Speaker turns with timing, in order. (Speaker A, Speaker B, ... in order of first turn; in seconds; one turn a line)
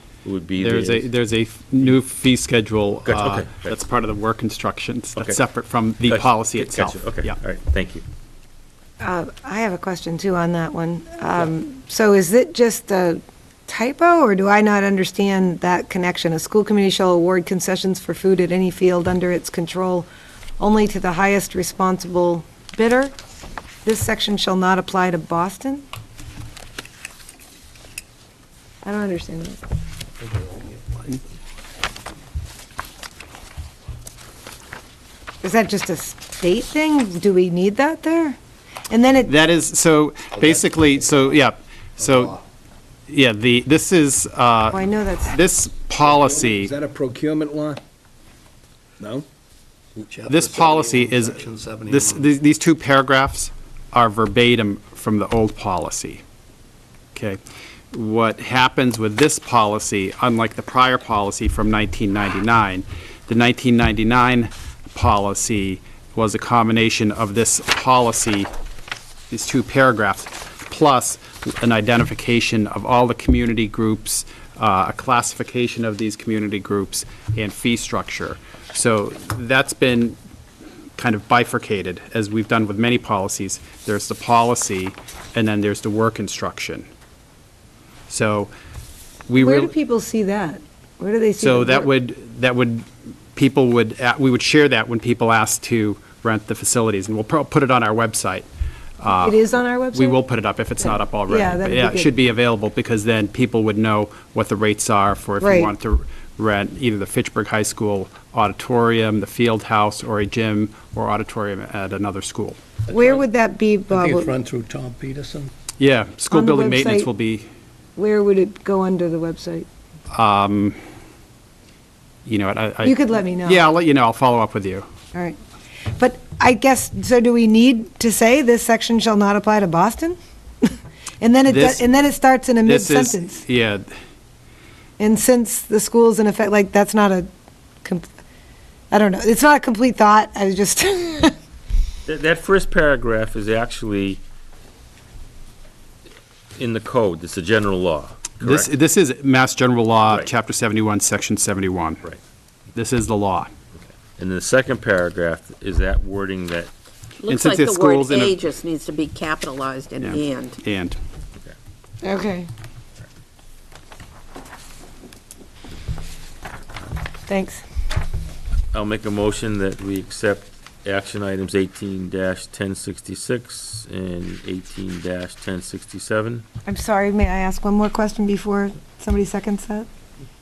Speaker A: 0.2-1.1
Speaker B: 0.6-7.3
Speaker A: 3.0-3.8
Speaker A: 5.2-5.4
Speaker A: 6.0-8.0
Speaker C: 9.0-20.1
Speaker C: 20.6-23.1
Speaker C: 23.8-25.8
Speaker C: 28.8-29.6
Speaker D: 30.2-31.2
Speaker C: 35.4-38.4
Speaker C: 38.9-39.3
Speaker B: 39.3-42.4
Speaker D: 40.4-40.6
Speaker D: 42.0-42.4
Speaker B: 43.1-46.7
Speaker C: 44.7-45.4
Speaker E: 46.2-47.8
Speaker E: 49.0-49.2
Speaker D: 50.0-52.3
Speaker B: 50.2-56.2
Speaker B: 57.9-68.5
Speaker B: 69.3-80.2
Speaker B: 81.0-86.9
Speaker B: 88.1-88.5
Speaker B: 89.3-89.7
Speaker C: 89.4-91.9
Speaker B: 91.4-98.5
Speaker B: 99.0-99.4
Speaker C: 99.2-100.2
Speaker B: 99.9-112.6
Speaker C: 101.3-102.1
Speaker C: 105.4-105.7
Speaker C: 112.9-114.3
Speaker D: 112.9-113.2
Speaker D: 113.9-115.5
Speaker B: 115.8-117.5
Speaker C: 116.3-117.1
Speaker C: 118.0-119.7
Speaker B: 120.1-120.8
Speaker B: 122.2-124.8
Speaker C: 122.8-123.6
Speaker C: 126.0-133.4
Speaker B: 131.5-131.9
Speaker B: 132.6-133.9
Speaker C: 135.0-137.3
Speaker C: 138.9-141.3
Speaker A: 142.1-144.2
Speaker A: 146.5-148.7
Speaker B: 148.4-152.1
Speaker B: 152.7-153.5
Speaker A: 154.0-156.7
Speaker F: 157.2-160.6
Speaker B: 157.3-158.3
Speaker B: 160.0-161.0
Speaker C: 162.0-162.5
Speaker C: 167.3-167.6
Speaker A: 168.7-176.4
Speaker C: 176.7-179.9